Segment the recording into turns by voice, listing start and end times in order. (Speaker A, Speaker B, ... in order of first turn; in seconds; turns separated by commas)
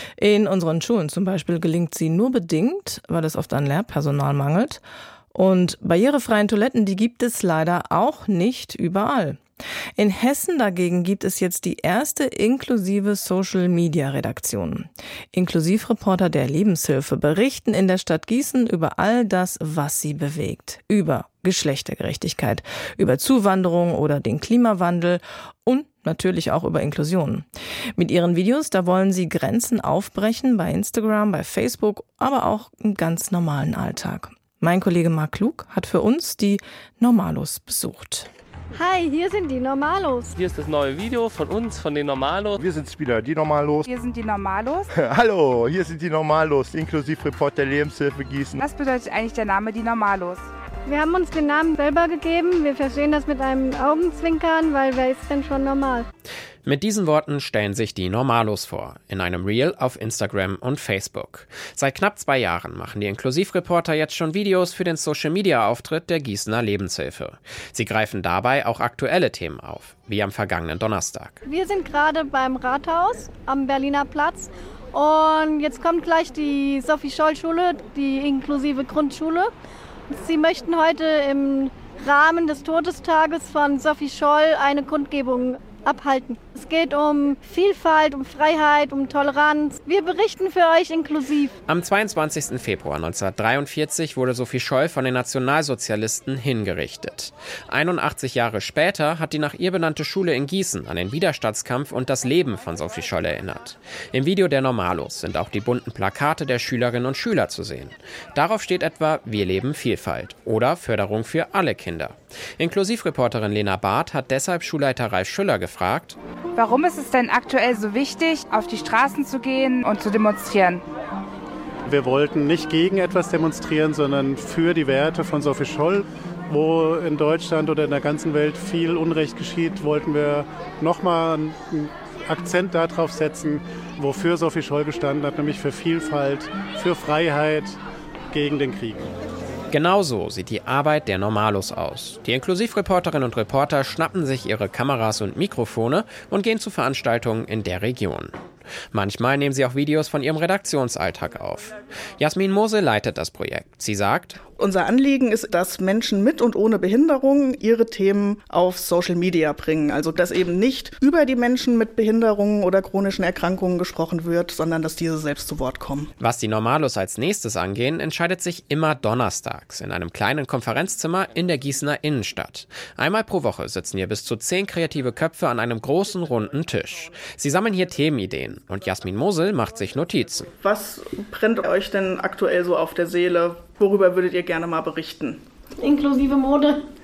Speaker A: 0.2-4.8, Speaker A: 5.3-9.4, Speaker A: 9.9-38.3, Speaker B: 38.7-40.3, Speaker C: 40.4-42.6, Speaker D: 42.6-43.8, Speaker E: 43.8-44.9, Speaker D: 44.9-48.6, Speaker E: 48.6-50.4, Speaker B: 50.9-56.0, Speaker F: 56.6-71.4, Speaker B: 71.4-79.5, Speaker B: 80.1-91.5, Speaker F: 91.7-116.2, Speaker E: 116.5-120.8, Speaker G: 121.8-137.8, Speaker G: 138.3-139.1, Speaker F: 139.7-148.3, Speaker F: 148.9-154.4, Speaker H: 154.6-166.1, Speaker F: 166.2-180.5, Speaker H: 180.6-185.4, Speaker B: 185.8-186.8